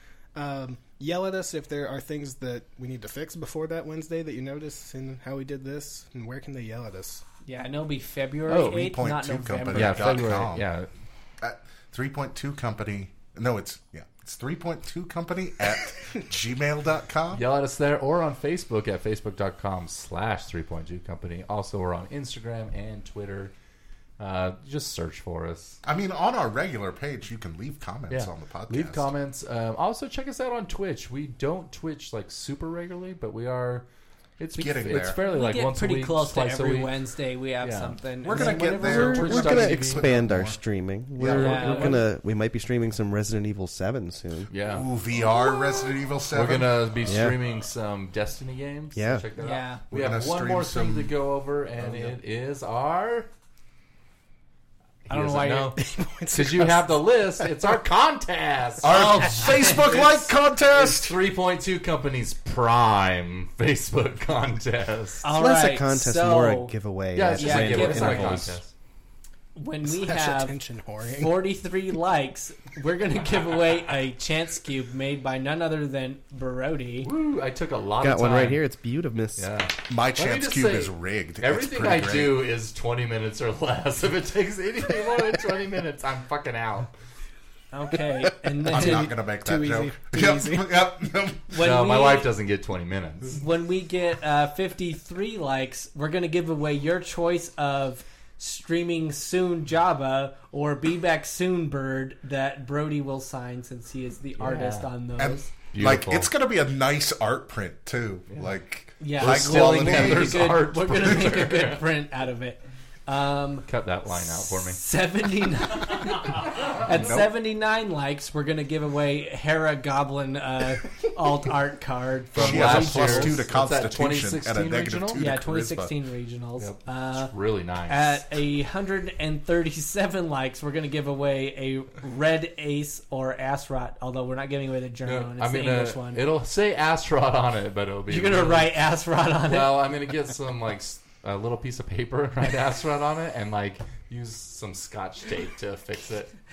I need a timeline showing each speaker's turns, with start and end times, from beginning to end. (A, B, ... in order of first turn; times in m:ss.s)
0:00.3-0:07.2 A
0:07.4-0:10.3 B
0:08.5-0:08.9 C
0:08.7-0:10.7 D
0:09.7-0:10.9 C
0:11.4-0:17.4 D
0:17.3-0:23.5 C
0:24.2-0:25.8 C
0:25.8-0:29.1 D
0:28.1-0:33.8 C
0:34.4-0:37.0 C
0:34.6-0:35.2 D
0:35.2-0:39.5 B
0:37.6-0:38.0 C
0:38.2-0:40.6 D
0:38.6-0:40.1 C
0:38.7-0:44.5 E
0:41.2-0:41.9 D
0:41.2-0:42.0 C
0:41.3-0:42.0 B
0:44.5-0:44.9 C
0:44.7-0:46.8 D
0:46.3-0:53.3 C
0:47.0-0:47.4 E
0:48.9-0:49.2 E
0:49.4-0:49.8 B
0:49.9-0:51.1 D
0:51.8-0:52.2 D
0:55.1-0:55.8 C
0:55.1-0:55.8 B
0:55.7-0:57.7 A
0:56.3-0:59.4 C
0:58.8-1:01.2 D
0:59.4-0:59.8 B
1:00.7-1:05.2 C
1:05.2-1:06.7 B
1:05.3-1:08.6 E
1:07.1-1:08.7 C
1:07.4-1:08.5 B
1:09.5-1:10.6 B
1:09.8-1:11.4 A
1:11.2-1:17.1 B
1:17.0-1:18.6 C
1:18.0-1:19.5 E
1:19.4-1:26.9 C
1:19.9-1:22.4 D
1:27.7-1:29.1 B
1:28.6-1:31.5 D
1:28.7-1:30.8 A
1:31.5-1:32.3 B
1:31.5-1:33.4 C
1:33.3-1:45.5 B
1:44.4-1:44.9 C
1:45.2-1:50.6 D
1:45.7-1:46.3 C
1:48.3-1:48.5 C
1:49.0-2:03.4 B
1:49.1-1:51.9 C
1:53.7-1:54.8 C
1:56.8-1:57.3 D
2:02.3-2:05.3 C
2:02.3-2:05.9 D
2:05.1-2:07.3 B
2:06.6-2:08.2 C
2:07.8-2:16.2 B
2:15.0-2:18.8 C
2:18.1-2:19.7 B
2:19.4-2:26.3 C